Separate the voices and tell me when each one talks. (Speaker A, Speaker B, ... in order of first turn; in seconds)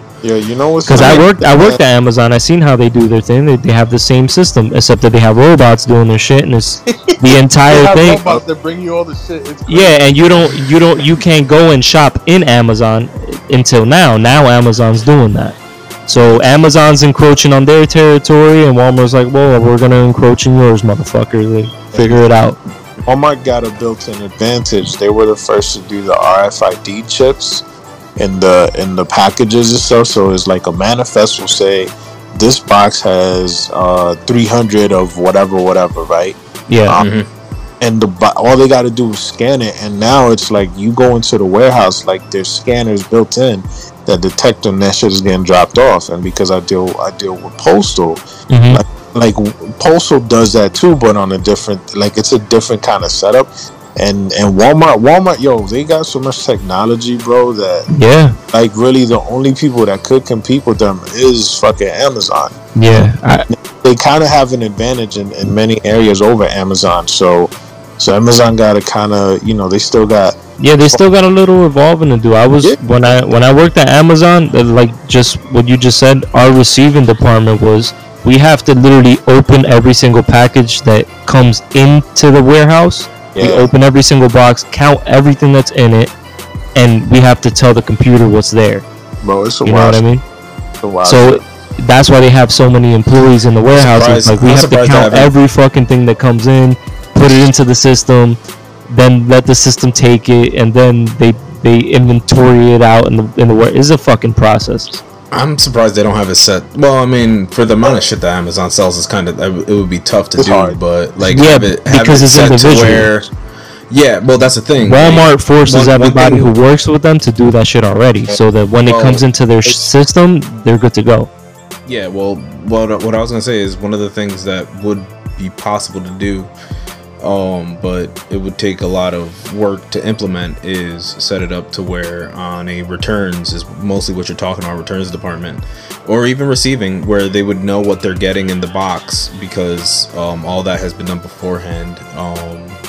Speaker A: 0.2-1.8, 21.9-22.2, 23.1-27.6, 28.2-37.1, 37.8-57.9, 58.5-62.6, 63.5-70.4, 83.3-83.7, 89.2-90.0, 90.8-91.4, 110.4-110.8
Speaker B: 0.9-8.2, 9.7-22.6, 36.7-37.0, 48.5-48.8, 57.9-58.4, 62.8-63.5, 70.6-86.1, 86.8-88.8, 89.6-90.2, 91.0-105.0, 111.3-113.1, 114.8-121.3
Speaker C: 0.9-1.2, 37.0-37.3, 93.7-95.3, 105.3-113.3, 113.9-116.5, 118.9-119.8, 121.9-126.5, 127.2-142.8
Speaker D: 7.7-10.1